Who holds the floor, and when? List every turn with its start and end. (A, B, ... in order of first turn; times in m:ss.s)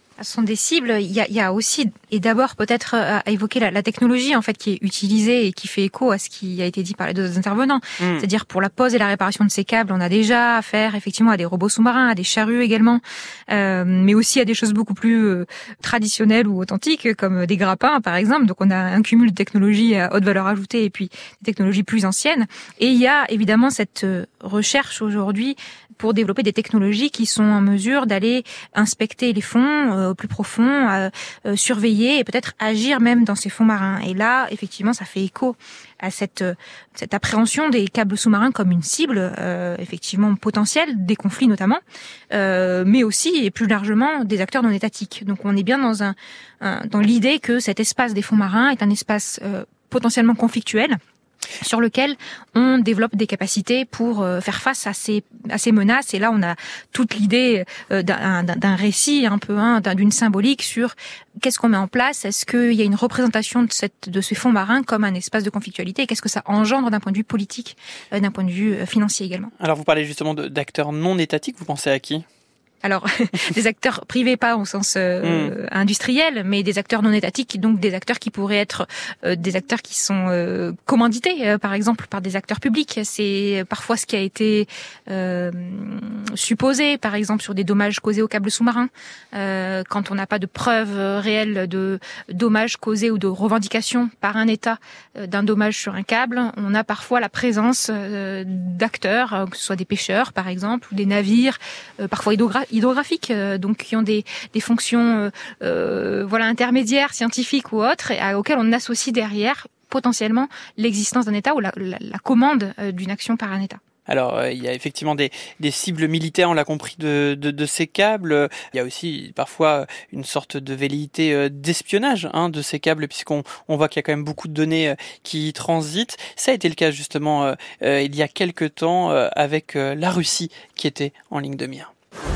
0:00.2-0:51.0 A
0:08.0-0:08.2 B
0:51.6-1:09.5 A
1:09.6-1:12.2 B
1:12.8-1:53.8 A
1:15.2-1:15.5 B
1:54.1-2:11.9 B